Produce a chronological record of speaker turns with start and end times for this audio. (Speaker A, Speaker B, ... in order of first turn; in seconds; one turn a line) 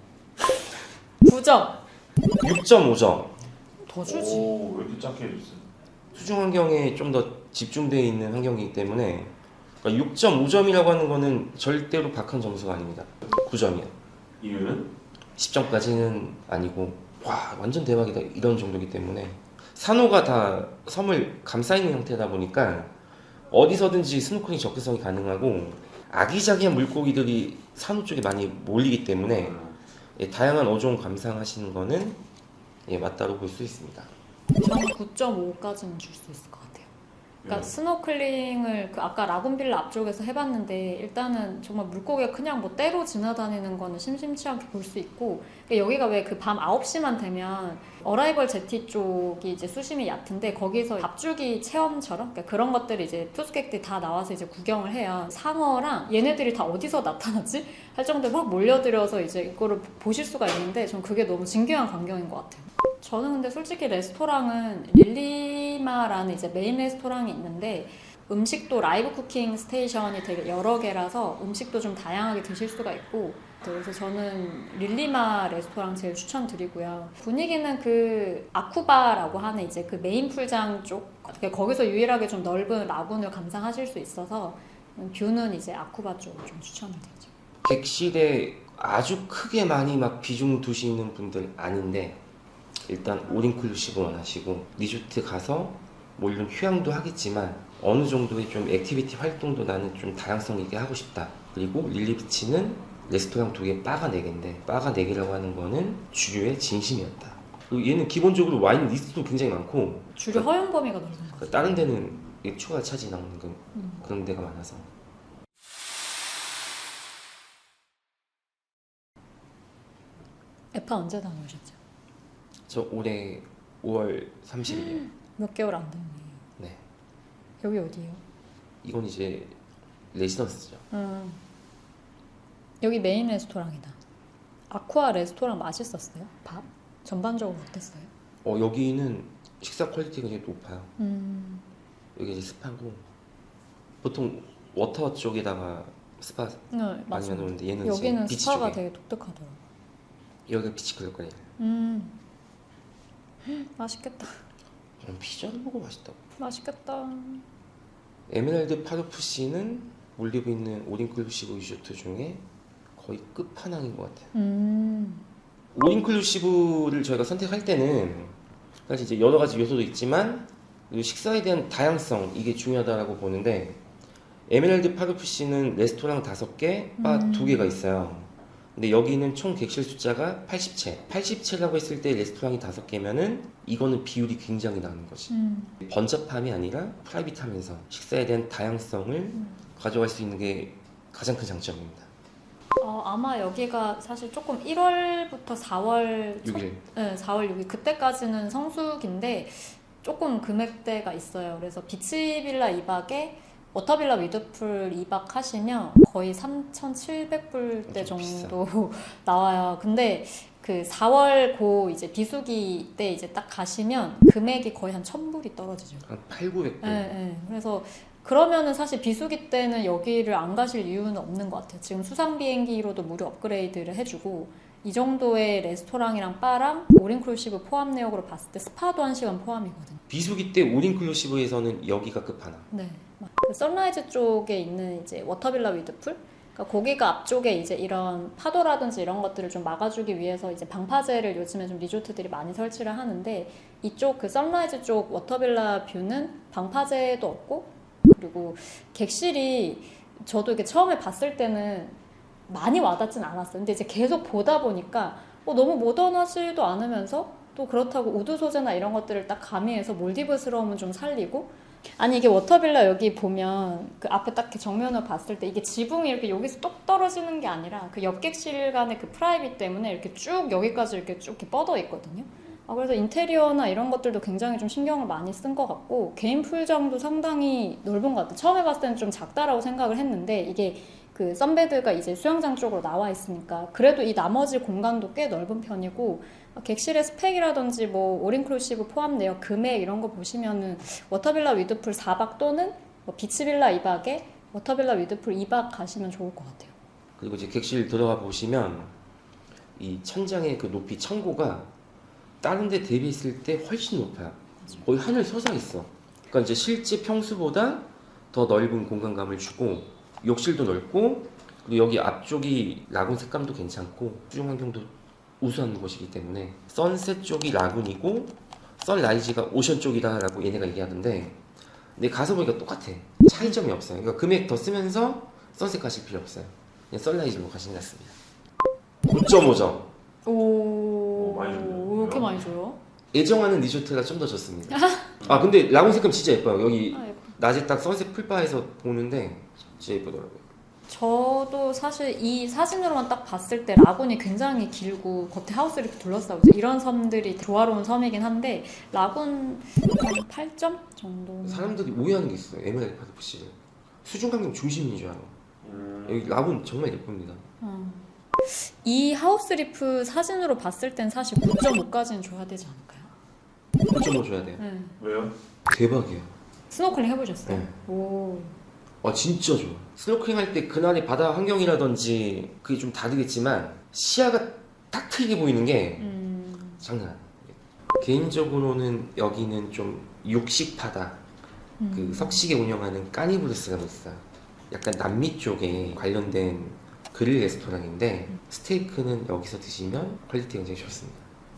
Speaker A: 0.4-1.8
Speaker B: 2.4-3.4
Speaker A: 3.8-4.5
Speaker C: 4.0-5.6
Speaker B: 6.1-13.9
Speaker C: 14.4-14.9
Speaker B: 15.4-22.9
Speaker B: 23.5-29.6
Speaker C: 29.4-29.7
Speaker B: 30.1-32.2
Speaker B: 32.9-34.1
Speaker A: 34.6-36.9
Speaker A: 37.5-87.3
Speaker B: 87.6-92.2
Speaker B: 92.8-110.5
Speaker A: 110.1-111.9
Speaker B: 111.4-114.9
Speaker A: 113.7-114.0
Speaker A: 120.7-121.8
Speaker B: 122.7-125.0
Speaker A: 124.7-126.4
Speaker A: 127.6-128.2
Speaker B: 128.8-129.6
Speaker B: 130.1-130.8
Speaker A: 130.9-131.4
Speaker A: 132.8-134.0
Speaker A: 134.7-138.1
Speaker B: 138.4-140.9
Speaker A: 141.0-141.6
Speaker B: 142.2-143.0
Speaker B: 144.0-148.8
Speaker A: 146.7-149.6
Speaker B: 150.5-151.5
Speaker A: 151.6-152.2
Speaker A: 153.4-154.4
Speaker B: 155.0-156.2
Speaker A: 156.4-157.4
Speaker B: 158.3-162.4
Speaker B: 162.9-164.3
Speaker A: 164.3-165.2
Speaker B: 165.7-168.3
Speaker B: 168.9-173.8
Speaker B: 174.5-185.3
Speaker A: 177.0-177.8
Speaker A: 185.3-185.8
Speaker B: 185.8-192.1
Speaker A: 189.3-189.6
Speaker A: 192.8-216.0
Speaker B: 196.4-196.8
Speaker B: 207.9-208.6
Speaker B: 216.0-217.1
Speaker A: 216.8-230.0
Speaker B: 230.1-232.7
Speaker A: 232.7-252.0
Speaker A: 252.5-296.7
Speaker B: 297.2-298.9
Speaker B: 299.8-301.7
Speaker B: 302.4-321.4
Speaker B: 321.9-328.1
Speaker B: 329.0-329.9
Speaker A: 330.2-332.8
Speaker C: 331.1-332.4
Speaker B: 333.1-340.4
Speaker A: 334.7-335.2
Speaker A: 336.9-337.4
Speaker A: 340.9-351.8
Speaker B: 351.4-355.4
Speaker C: 355.6-356.3
Speaker B: 356.1-357.4
Speaker A: 357.6-363.1
Speaker B: 363.9-364.6
Speaker A: 364.6-365.0
Speaker C: 365.0-365.3
Speaker B: 365.7-366.3
Speaker A: 366.7-368.6
Speaker B: 367.5-367.7
Speaker B: 369.0-376.1
Speaker A: 376.0-376.8
Speaker B: 376.8-381.2
Speaker A: 381.8-382.4
Speaker B: 381.9-391.2